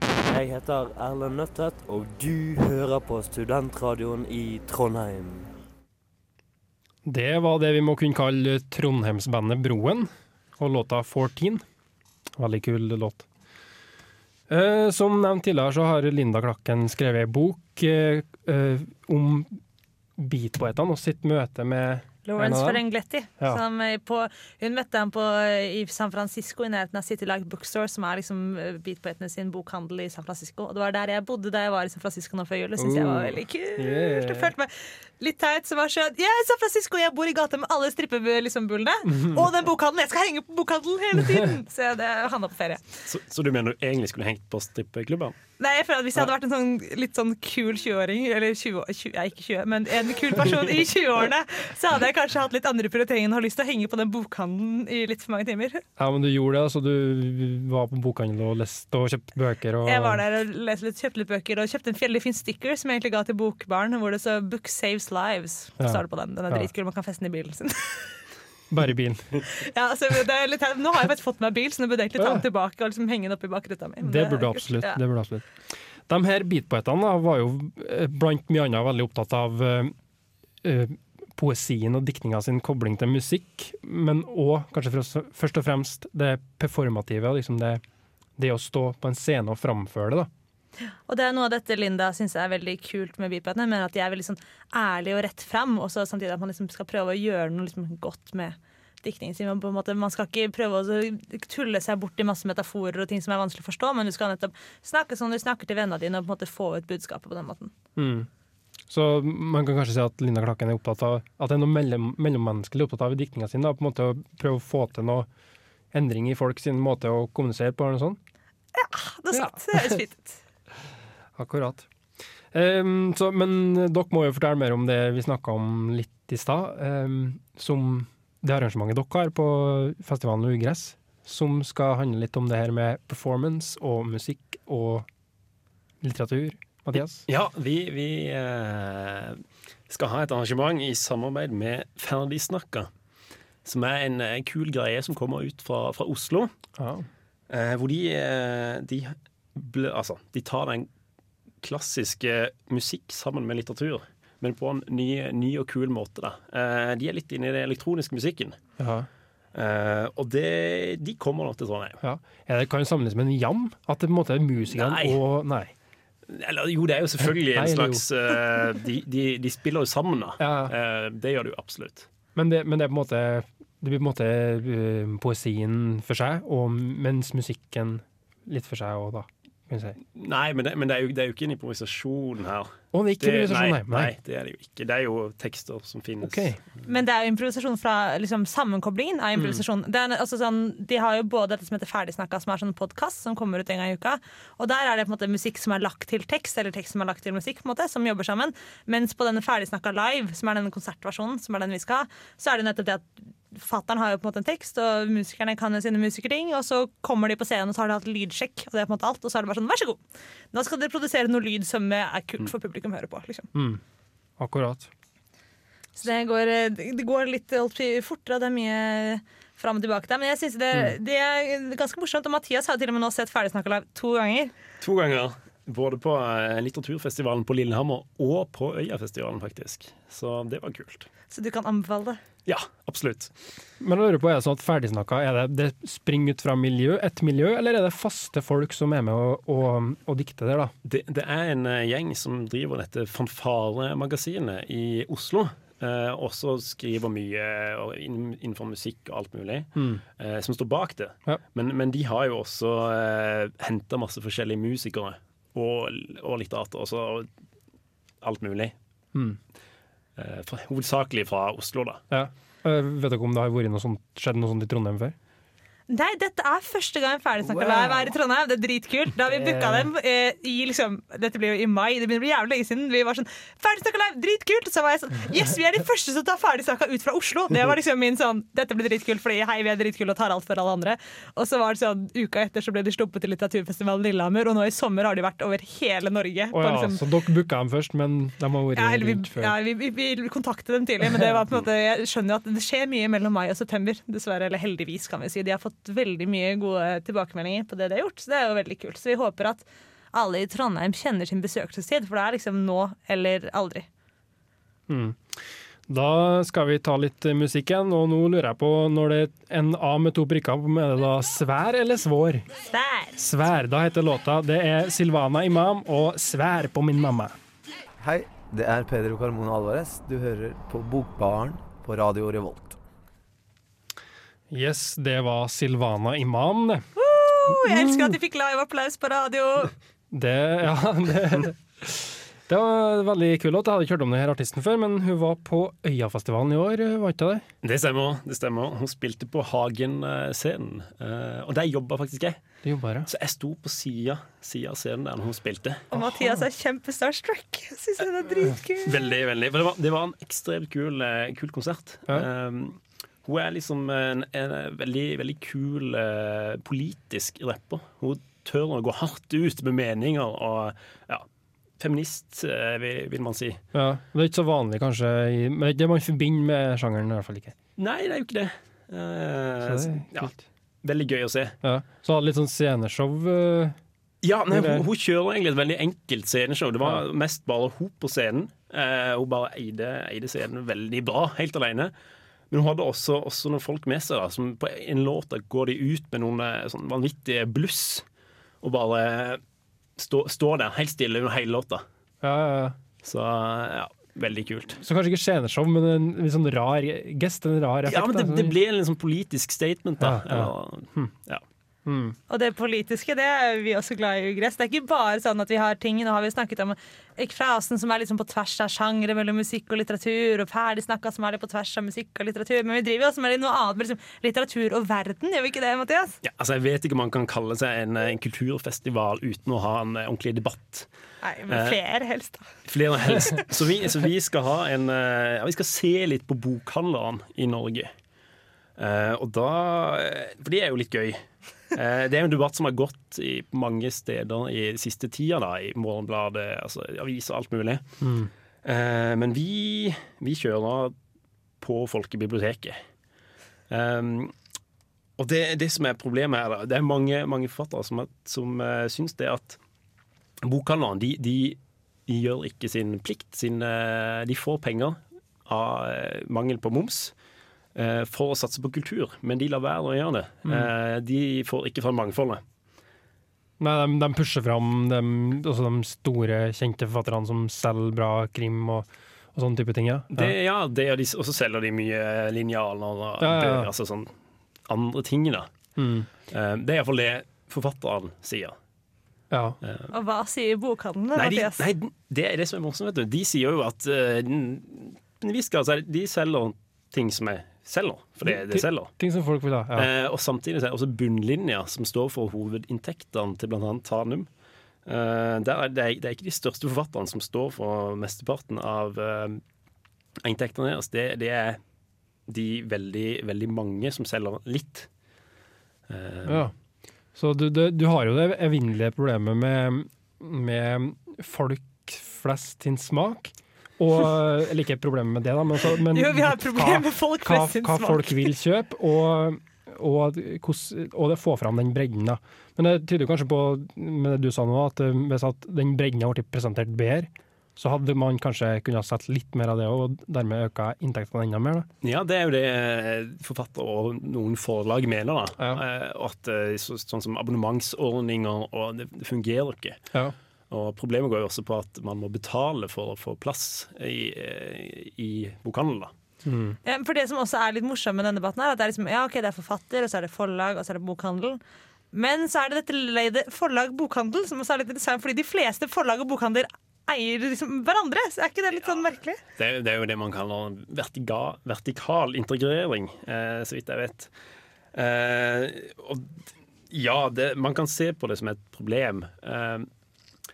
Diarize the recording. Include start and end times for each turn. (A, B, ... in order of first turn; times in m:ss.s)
0:00.3-0:05.5 A
0:07.0-0:11.6 B
0:12.4-0:13.3 B
0:14.5-0:19.6 B
0:20.2-0:22.8 B
0:22.2-0:42.8 C
0:32.8-0:34.5 B
0:39.1-0:39.4 B
0:43.1-0:45.4 D
0:45.6-0:55.8 C
0:56.0-1:00.2 B
0:59.8-1:08.2 C
1:05.8-1:06.7 B
1:08.7-1:09.4 B
1:09.5-1:15.0 C
1:12.2-1:12.5 B
1:14.0-1:15.4 B
1:16.1-1:19.9 B
1:20.6-1:27.8 B
1:28.4-1:30.3 B
1:31.1-1:47.7 C
1:48.0-1:48.3 B
1:48.9-1:55.3 B
1:55.9-1:58.2 B
1:58.8-2:00.4 C
1:59.3-2:00.0 B
2:01.4-2:01.9 B
2:02.5-2:15.1 B
2:16.0-2:17.2 B
2:17.3-2:22.9 D
2:23.6-2:26.5 D
2:26.8-2:27.1 B
2:27.5-2:30.9 D
2:31.6-2:38.6 D
2:38.8-2:39.1 B
2:39.5-2:42.0 D
2:42.0-2:45.7 B
2:44.7-2:45.2 D
2:46.3-2:52.1 D
2:47.5-2:48.0 B
2:50.4-2:50.7 B
2:52.4-3:00.0 B
3:00.2-3:06.5 D
3:02.9-3:04.1 B
3:06.2-3:06.6 B
3:06.8-3:30.0 C
3:30.5-3:33.5 C
3:33.5-3:33.8 B
3:34.4-3:34.9 B
3:36.0-3:44.5 C
3:44.8-3:51.1 D
3:51.3-3:52.2 C
3:52.5-3:53.3 D
3:53.8-4:00.7 B
4:00.8-4:17.3 D
4:09.8-4:10.0 B
4:18.2-4:18.7 D
4:20.2-4:22.0 D
4:22.1-4:25.2 B
4:25.9-4:47.0 C
4:29.3-4:29.9 B
4:46.5-4:49.6 B
4:48.8-5:03.9 C
5:04.9-5:12.5 B
5:12.7-5:13.2 C
5:13.2-5:17.4 B
5:18.0-5:22.8 E
5:24.5-5:26.9 B
5:27.0-5:29.7 C
5:27.5-5:28.2 B
5:30.1-5:37.4 B
5:37.6-5:42.4 D
5:42.6-5:43.1 B
5:43.0-5:45.8 D
5:45.9-5:49.0 C
5:46.0-5:46.4 B
5:48.8-6:01.2 D
6:01.8-6:03.6 D
6:03.7-6:07.6 B
6:07.8-6:10.3 D
6:09.6-6:10.4 B
6:10.8-6:11.6 D
6:11.6-6:13.8 B
6:14.2-6:21.9 D
6:14.5-6:14.8 B
6:22.5-6:28.0 D
6:28.6-6:29.4 D
6:30.0-6:31.8 D
6:32.2-6:32.8 B
6:33.0-6:34.8 D
6:34.8-6:38.6 B
6:37.9-6:41.4 D
6:40.0-6:41.1 B
6:41.9-6:42.2 B
6:42.3-6:56.2 C
6:56.2-7:00.9 D
7:01.2-7:02.5 C
7:01.5-7:01.8 D
7:02.7-7:07.9 D
7:08.8-7:17.8 D
7:18.0-7:18.3 B
7:18.6-7:21.0 D
7:21.6-7:22.8 D
7:23.7-7:24.3 D
7:25.2-7:29.6 D
7:30.4-7:37.1 D
7:37.8-7:42.4 D
7:40.4-7:40.7 B
7:43.6-7:50.4 B
7:50.1-7:54.1 D
7:53.2-7:53.7 B
7:54.7-7:55.5 D
7:55.8-7:56.1 B
7:56.3-7:58.6 D
7:59.3-7:59.6 B
7:59.6-7:59.9 D
7:59.9-8:01.6 C
8:01.2-8:08.9 D
8:08.2-8:09.9 B
8:09.8-8:14.3 D
8:14.9-8:19.4 D
8:20.2-8:21.6 D
8:22.3-8:24.9 D
8:25.9-8:26.5 D
8:26.2-8:26.5 B
8:27.2-8:51.7 B
8:35.9-8:38.3 C
8:51.8-8:59.8 D
9:00.5-9:05.9 D
9:06.2-9:06.6 B
9:06.6-9:11.4 C
9:11.9-9:19.2 C
9:19.4-9:24.1 D
9:24.7-9:26.2 D
9:26.7-9:29.7 D